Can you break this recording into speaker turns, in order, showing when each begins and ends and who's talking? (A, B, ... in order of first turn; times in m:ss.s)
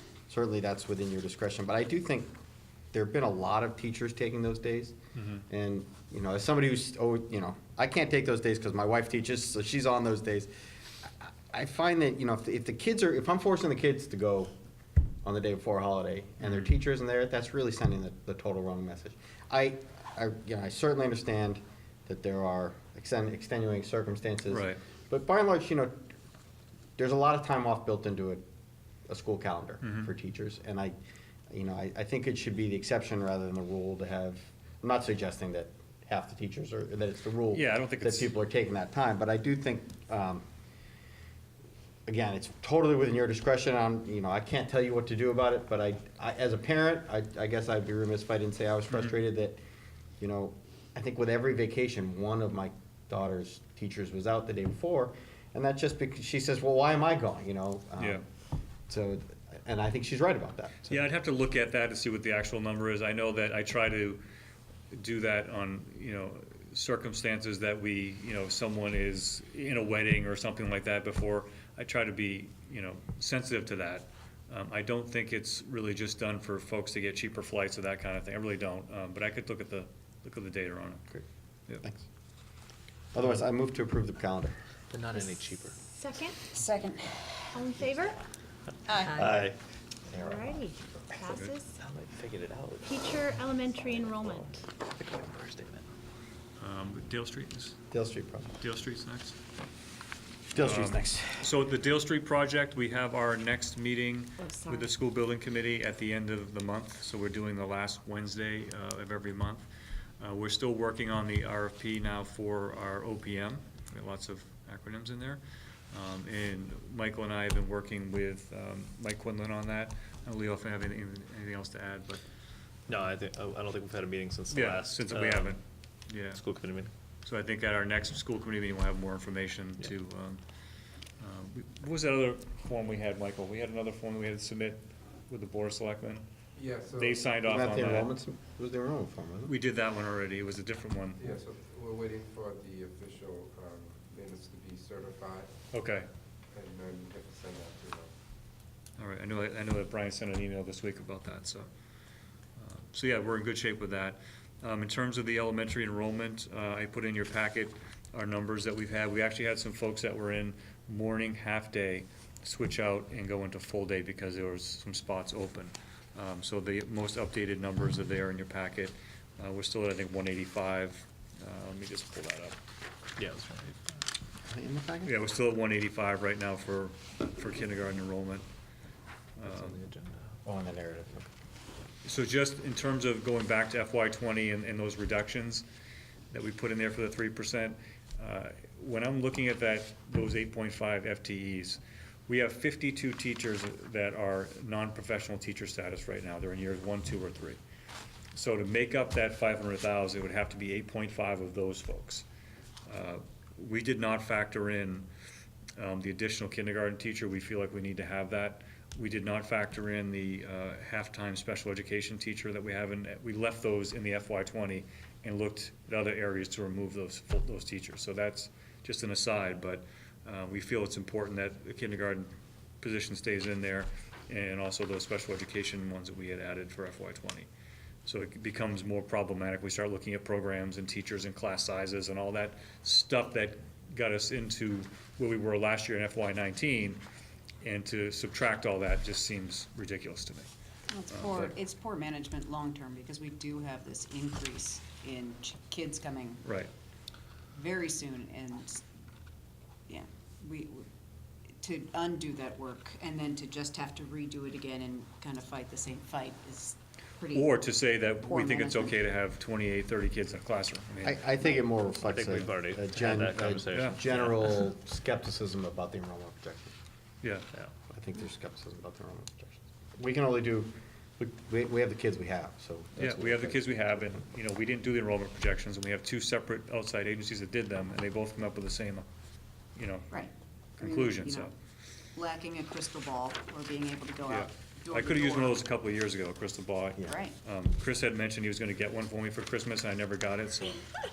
0:00.3-0:02.3 A
0:02.9-0:05.0 A
0:05.2-0:05.4 B
0:05.5-0:10.5 A
0:11.0-0:14.5 A
0:15.2-0:26.0 A
0:16.4-0:16.7 B
0:24.5-0:24.8 B
0:27.0-0:28.4 A
0:29.1-0:31.0 A
0:29.8-0:30.1 B
0:31.5-0:40.4 A
0:37.5-0:38.3 B
0:42.1-0:49.6 A
0:50.2-0:58.2 A
0:58.0-0:58.2 B
0:58.9-1:01.0 A
1:00.9-1:04.2 B
1:04.9-1:21.1 B
1:23.1-1:24.6 A
1:24.9-1:25.8 C
1:25.9-1:26.4 D
1:26.5-1:27.5 E
1:27.5-1:28.2 D
1:28.9-1:29.2 E
1:29.2-1:29.6 A
1:30.1-1:31.2 A
1:30.1-1:31.8 D
1:31.3-1:31.5 B
1:31.8-1:33.0 C
1:32.8-1:34.6 D
1:33.8-1:35.9 C
1:36.6-1:37.9 B
1:37.9-1:38.5 A
1:38.6-1:39.4 B
1:40.5-1:41.5 A
1:40.6-1:49.7 B
1:44.4-1:44.9 D
1:50.2-1:55.4 B
1:55.9-2:02.2 B
2:02.9-2:05.6 C
2:04.5-2:06.4 B
2:06.3-2:06.9 C
2:07.2-2:10.4 B
2:11.2-2:16.2 B
2:16.6-2:17.3 F
2:16.9-2:18.1 B
2:17.4-2:19.5 A
2:19.4-2:21.3 B
2:21.2-2:25.5 F
2:25.7-2:26.1 B
2:26.5-2:28.1 F
2:29.0-2:31.7 B
2:32.6-2:52.6 B
2:53.2-2:53.8 C
2:54.5-2:55.1 A
2:55.0-2:58.4 B
2:59.4-2:59.8 B
2:59.5-3:00.1 C
3:00.4-3:01.3 A
3:02.0-3:05.7 B
3:06.3-3:17.6 B
3:18.3-3:22.2 B
3:22.9-3:25.1 B
3:25.8-3:42.3 B
3:42.8-3:47.5 B
3:48.0-3:57.0 B
3:57.6-4:00.5 B
4:00.9-4:06.4 E
4:01.1-4:01.5 B
4:06.4-4:06.7 B
4:07.5-4:08.8 E
4:09.9-4:10.9 E
4:11.6-4:19.0 E
4:17.3-4:21.2 B
4:21.0-4:26.8 A
4:22.0-4:24.5 C
4:23.7-4:24.0 B
4:27.2-4:27.5 B
4:27.9-4:33.7 A
4:33.0-4:39.1 B
4:39.8-4:40.2 B
4:40.1-4:41.5 E
4:40.8-4:41.5 B
4:42.1-4:45.6 E
4:44.3-4:50.8 B
4:47.0-4:47.4 E